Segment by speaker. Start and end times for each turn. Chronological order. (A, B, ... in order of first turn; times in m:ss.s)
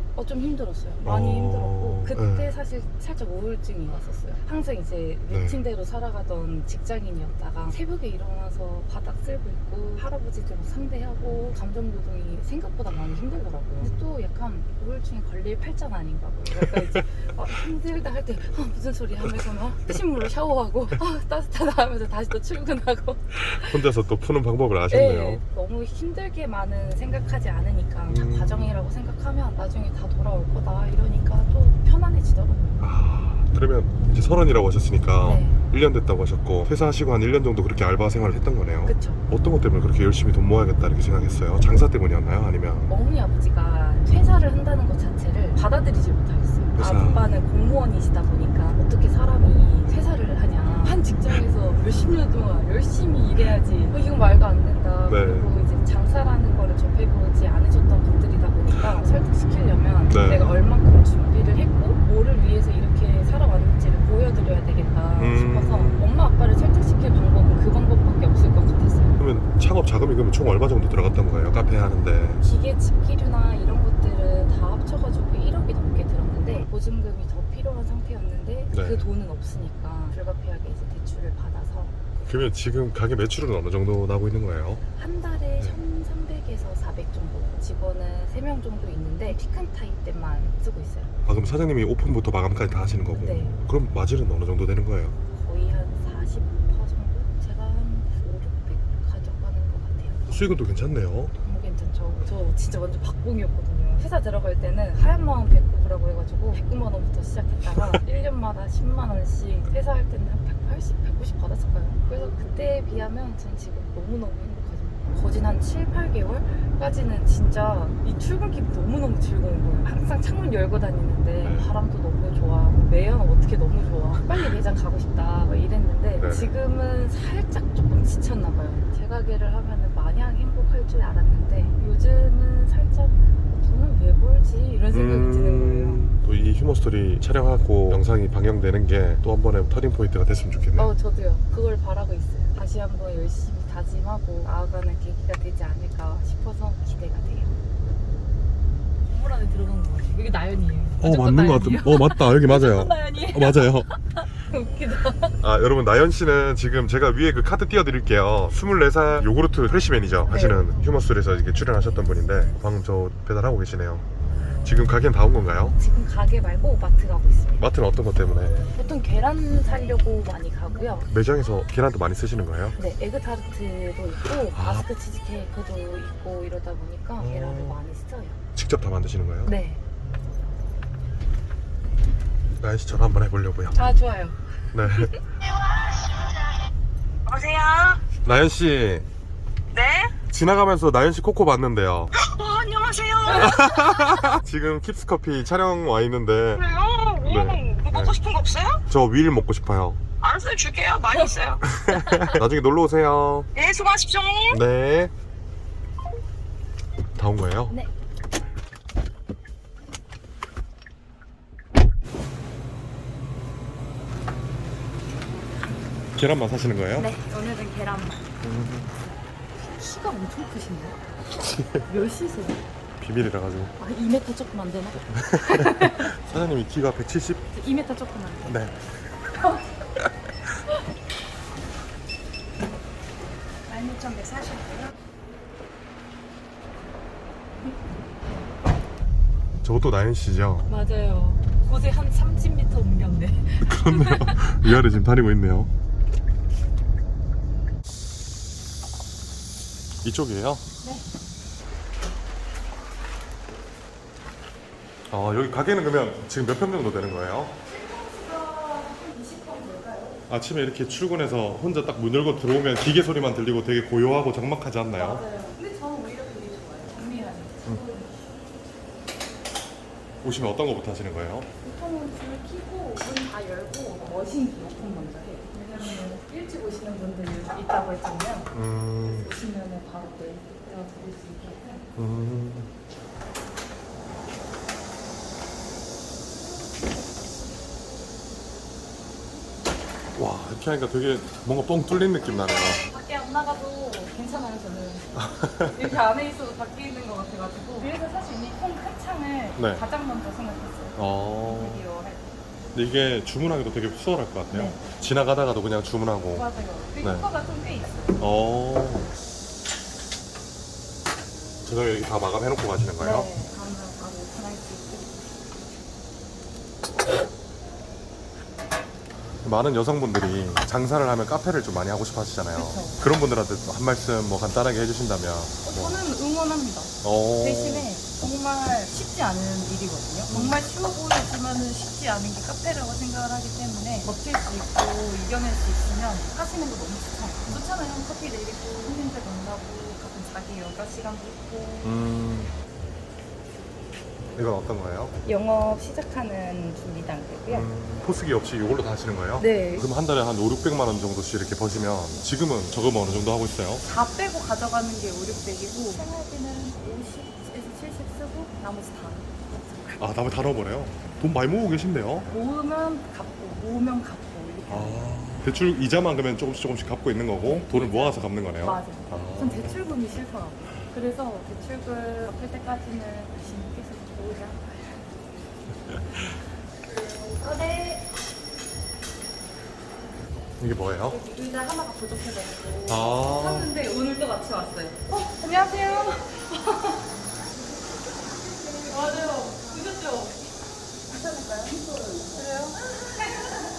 0:00.1-0:23.8 A
0:01.0-0:02.5 B
0:05.3-0:05.6 B
0:13.8-0:14.0 B
0:23.3-0:25.4 B
0:24.9-0:32.9 A
0:28.1-0:28.8 B
0:32.8-0:42.9 B
0:35.2-0:35.6 A
0:38.8-0:39.2 A
0:42.9-1:09.2 A
0:46.8-0:47.2 B
0:55.1-0:55.5 B
1:00.1-1:00.5 B
1:05.2-1:06.1 B
1:09.2-1:12.4 B
1:12.4-1:22.0 A
1:18.7-1:19.0 B
1:22.2-1:24.8 B
1:25.0-1:31.1 A
1:31.2-1:35.2 B
1:33.2-1:33.6 A
1:35.3-1:40.4 A
1:40.3-1:41.3 B
1:41.4-2:16.2 A
2:01.4-2:01.7 B
2:06.2-2:06.5 B
2:14.9-2:20.9 B
2:20.8-2:27.5 A
2:29.0-2:35.4 A
2:31.0-2:33.9 B
2:35.4-2:44.0 B
2:40.3-2:40.7 A
2:44.6-2:45.7 B
2:45.8-2:47.6 A
2:47.6-2:48.6 B
2:48.7-2:51.1 A
2:51.1-2:52.8 B
2:52.8-2:58.4 A
2:54.5-2:54.8 B
2:57.2-2:57.8 B
2:58.5-2:59.5 B
2:59.4-2:59.8 A
3:02.6-3:03.8 B
3:03.7-3:05.2 A
3:04.7-3:05.1 B
3:05.4-3:06.6 C
3:07.2-3:08.0 C
3:08.2-3:09.0 B
3:09.7-3:10.1 C
3:10.3-3:12.1 B
3:12.2-3:14.3 C
3:13.3-3:16.6 B
3:16.6-3:18.8 C
3:17.2-3:18.2 B
3:18.8-3:20.0 B
3:20.2-3:21.8 C
3:21.6-3:23.5 B
3:23.5-3:24.6 C
3:24.5-3:25.1 B
3:27.1-3:27.8 B
3:36.2-3:37.1 B
3:36.9-3:38.3 A
3:38.4-3:38.9 B
3:39.6-3:41.0 A
3:41.4-3:41.8 B
3:41.9-3:42.6 A
3:43.0-3:43.7 B
3:43.8-3:46.1 A
3:45.1-3:47.4 B
3:47.5-3:48.5 A
3:48.4-3:49.1 B
3:53.7-3:54.9 A
3:59.6-4:00.7 B
4:00.7-4:04.8 A
4:03.6-4:05.7 B
4:10.0-4:10.6 B
4:15.1-4:17.6 B
4:17.6-4:20.2 A
4:20.3-4:25.2 B
4:24.9-4:28.1 A
4:30.2-4:31.5 B
4:31.6-4:38.5 A
4:38.5-4:39.3 B
4:39.1-4:41.8 A
4:42.0-4:42.7 B
4:50.1-4:52.8 B
4:52.2-4:55.1 A
4:55.1-4:55.9 B
4:55.7-5:02.2 A
4:59.6-4:59.8 B
5:01.0-5:01.8 B
5:02.7-5:06.5 B
5:04.5-5:04.8 A
5:06.3-5:08.2 A
5:07.0-5:07.3 B
5:08.2-5:09.1 B
5:11.6-5:13.3 B
5:13.0-5:15.2 A
5:19.4-5:26.0 B
5:22.5-5:23.0 A
5:25.6-5:41.9 A
5:27.0-5:27.9 B
5:30.3-5:30.6 B
5:41.8-5:42.5 B
5:44.3-5:45.1 B
5:45.2-5:47.7 A
5:47.5-5:53.8 B
5:49.4-5:49.8 A
5:53.8-6:00.0 A
6:00.0-6:02.3 B
6:02.3-6:05.2 A
6:04.7-6:09.8 B
6:07.4-6:15.0 A
6:15.9-6:16.4 B
6:17.1-6:18.0 A
6:20.6-6:21.2 B
6:21.0-6:27.0 A
6:22.9-6:23.7 B
6:28.6-6:29.7 C
6:28.8-6:30.4 A
6:31.9-6:32.3 C
6:32.3-6:32.8 A